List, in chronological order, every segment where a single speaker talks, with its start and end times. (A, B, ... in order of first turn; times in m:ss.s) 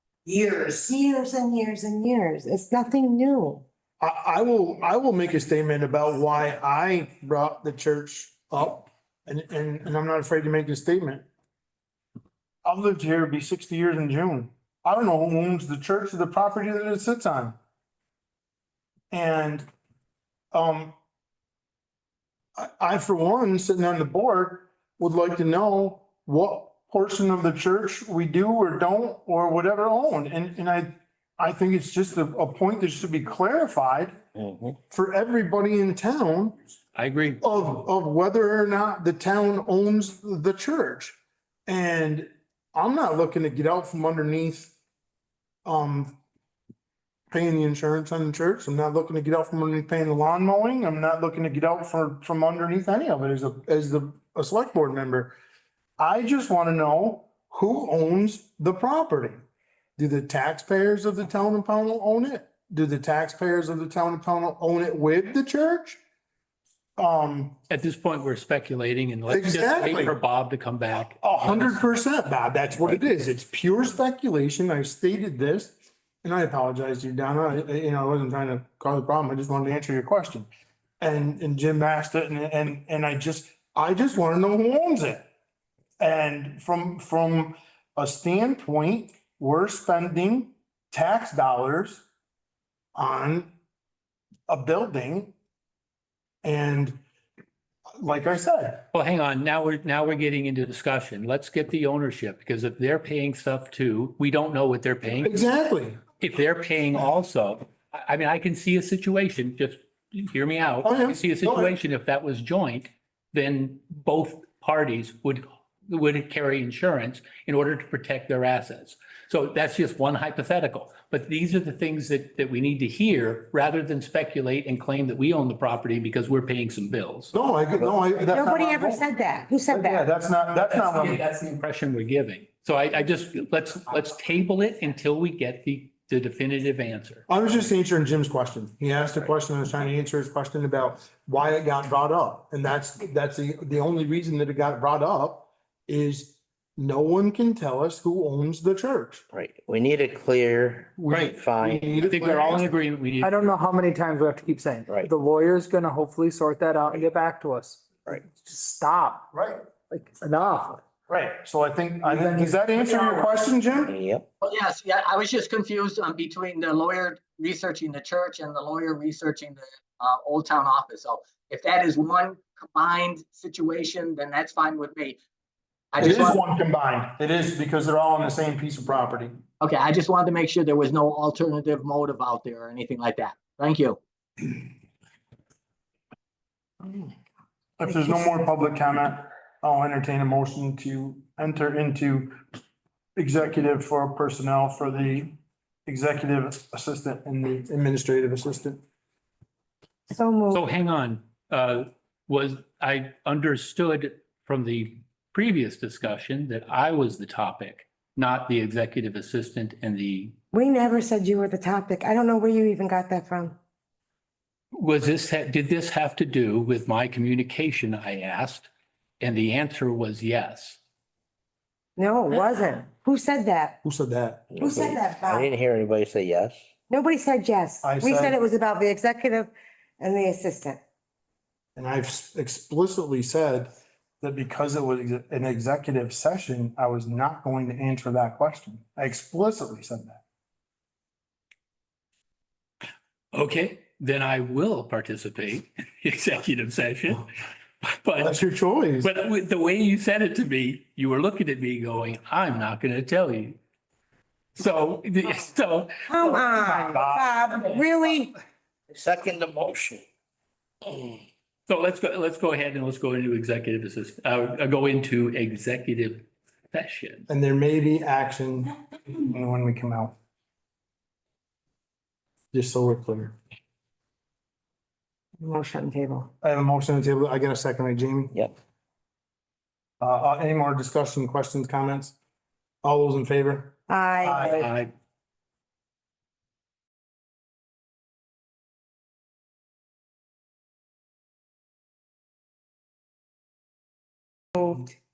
0:00.3-0:03.6 A
0:04.0-0:11.3 B
0:12.6-0:17.6 B
0:19.1-0:19.7 B
0:20.5-0:20.9 B
0:22.6-0:34.2 B
0:34.4-0:34.7 C
0:34.9-0:36.6 B
0:37.0-0:37.4 D
0:37.4-0:41.2 B
0:41.7-0:44.7 B
0:45.6-0:46.2 B
0:47.3-0:55.3 B
0:56.0-0:59.4 B
1:00.0-1:06.0 B
1:07.0-1:07.6 B
1:07.7-1:11.8 D
1:09.3-1:10.2 B
1:11.2-1:20.5 B
1:21.0-1:25.3 B
1:26.0-1:32.0 B
1:33.0-1:33.5 B
1:34.5-1:35.3 B
1:36.4-1:37.0 B
1:38.0-1:38.8 B
1:38.9-1:45.5 D
1:45.2-1:46.0 B
1:46.2-2:07.3 D
1:50.8-1:51.8 B
2:07.3-2:09.0 B
2:08.3-2:10.1 A
2:09.7-2:11.2 B
2:10.7-2:17.3 D
2:17.3-2:29.2 B
2:29.3-2:32.1 C
2:31.1-2:32.7 B
2:32.0-2:33.3 D
2:33.2-2:37.8 E
2:38.4-2:39.2 E
2:39.3-2:39.6 B
2:39.9-2:40.8 E
2:41.1-2:43.9 B
2:42.1-2:42.6 E
2:43.9-2:44.3 C
2:44.4-2:55.2 F
2:55.9-2:56.4 F
2:56.0-2:59.4 B
2:59.6-3:04.6 F
3:07.8-3:12.4 B
3:13.2-3:15.3 B
3:15.9-3:18.8 B
3:20.1-3:20.6 A
3:20.5-3:30.4 D
3:30.5-3:33.6 A
3:34.7-3:40.8 D
3:42.0-3:43.8 A
3:43.8-3:44.5 B
3:44.5-3:46.6 C
3:44.6-3:45.5 A
3:46.9-3:50.8 A
3:47.8-3:48.4 B
3:51.8-4:00.2 B
4:03.3-4:07.3 D
4:07.8-4:08.4 D
4:08.2-4:09.1 B
4:09.0-4:13.6 D
4:14.6-4:15.9 D
4:16.1-4:18.3 A
4:16.6-4:17.3 B
4:18.9-4:20.0 C
4:21.7-4:27.3 D
4:27.3-4:30.2 B
4:32.5-4:33.4 B
4:35.4-4:36.3 A
4:36.4-4:38.4 B
4:40.0-4:42.2 B
4:42.8-4:44.7 B
4:43.9-4:44.6 A
4:44.5-4:44.9 D
4:54.6-4:54.9 A